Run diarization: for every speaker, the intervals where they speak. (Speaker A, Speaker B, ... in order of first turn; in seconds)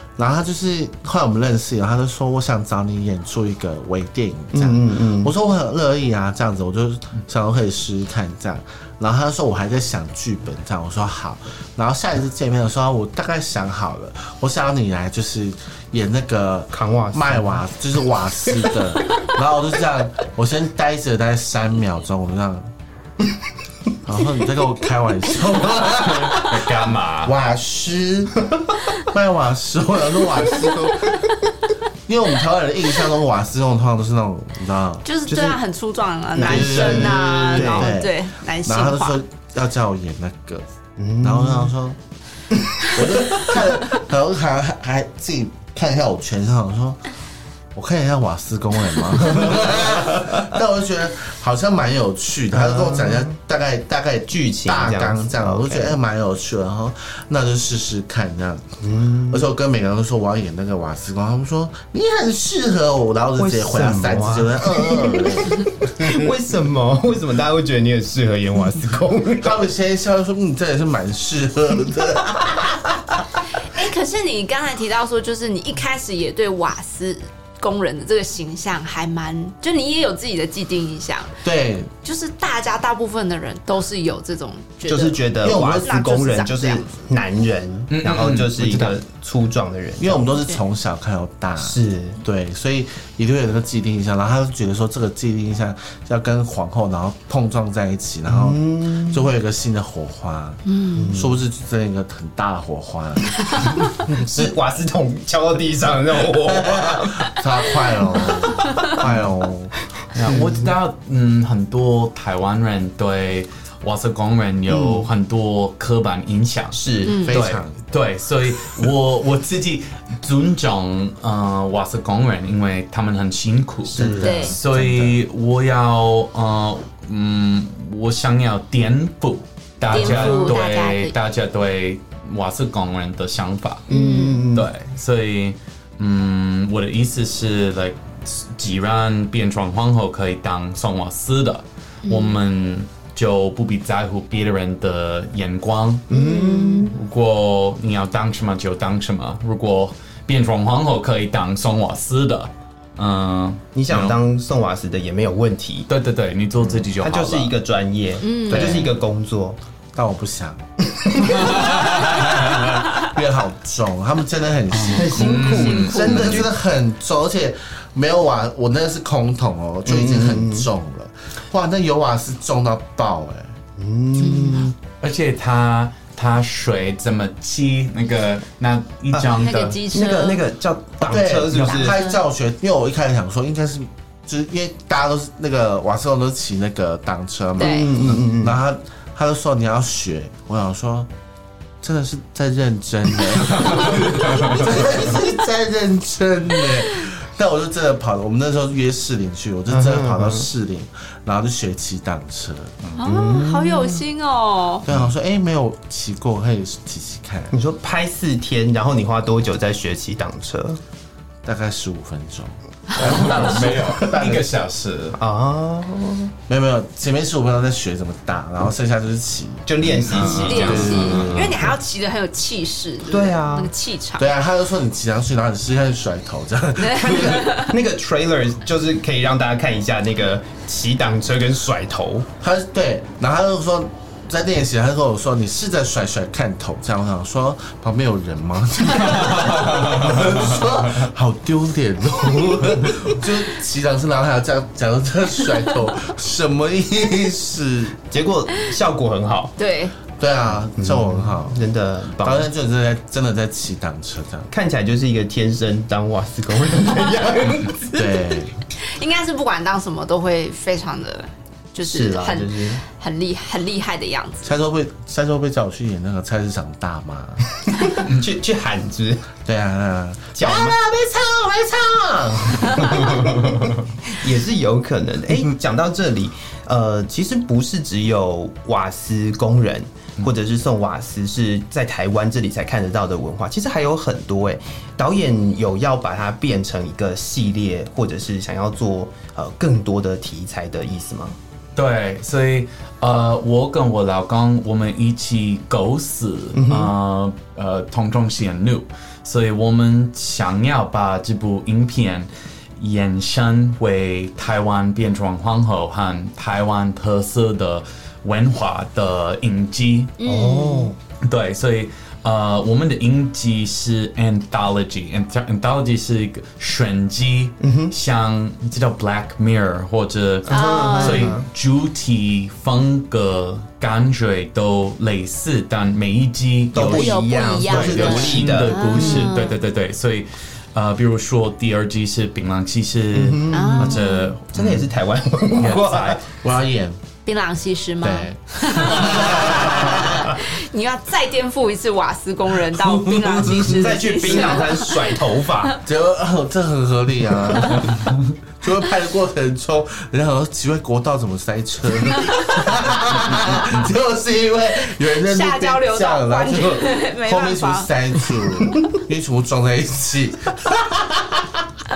Speaker A: 0.2-22.7, 24.0-28.4, 29.0-31.3, 32.1-35.1, 36.4-40.6, 41.2-42.0, 42.9-47.0, 47.7-58.8, 59.3-66.3, 69.4-73.0, 81.4-81.9, 85.4-85.9, 90.0-104.5, 106.2-109.7, 117.1-117.8, 124.0-125.2, 158.5-158.9, 159.9-160.6, 161.4-173.5, 181.0-191.1, 191.8-202.7, 204.8-207.5, 211.4-214.5, 216.5-221.8, 224.2-227.5, 232.4-248.0, 250.2-251.6, 252.2-254.5, 257.9-258.6, 264.4-267.4, 269.4-273.4, 336.4-337.0, 338.0-340.4, 345.8-361.6
Speaker B: 4.5-5.3, 16.7-17.6, 35.3-35.6, 36.3-37.9, 41.0-41.7, 42.6-43.5, 52.5-53.3, 54.3-56.0, 58.8-59.5, 63.4-69.6, 84.8-90.3, 91.6-92.2, 98.3-99.3, 100.9-101.4, 104.0-107.4, 108.1-109.2, 110.3-110.5, 114.7-115.1, 116.7-117.3, 123.9-124.5, 129.9-130.4, 133.9-134.7, 146.1-147.0, 153.7-155.9, 157.0-159.6, 160.9-162.7, 164.8-166.5, 169.9-170.7, 173.8-174.7, 179.1-182.0, 187.6-188.6, 199.7-200.5, 203.0-204.0, 207.5-210.8, 213.2-213.4, 215.2-216.3, 219.7-221.4, 223.1-223.7, 227.1-232.3, 248.1-249.5, 250.8-252.5, 254.5-258.4, 261.8-262.8, 267.7-269.3, 270.4-270.8, 272.6-291.4, 296.5-296.9, 310.2-311.0, 317.6-317.9, 320.5-321.5, 326.7-329.3, 333.1-334.0, 334.5-336.2, 338.9-340.1, 342.8-345.8
Speaker C: 26.0-27.4, 87.9-89.0, 110.1-133.9, 134.5-146.1, 146.9-154.2, 155.9-157.5, 161.3-162.7, 164.7-166.5, 175.0-179.8, 194.1-194.6, 212.9-215.2, 220.1-221.1, 239.3-240.2, 291.8-310.1, 311.2-334.9, 335.5-336.2, 353.6-353.9
Speaker D: 35.0-39.2, 73.6-81.4, 82.0-87.1, 100.7-101.1, 117.0-117.3, 124.2-124.6, 129.9-131.1, 133.9-134.5, 142.0-142.4, 146.1-146.9, 158.2-158.8, 174.2-174.7, 179.3-180.4, 181.5-182.2, 187.6-187.9, 203.0-204.8, 220.4-224.3, 226.8-227.8, 249.6-249.9, 258.8-264.5, 310.2-310.9, 320.5-321.4, 326.7-329.6, 333.5-334.3, 337.2-345.7, 355.3-357.9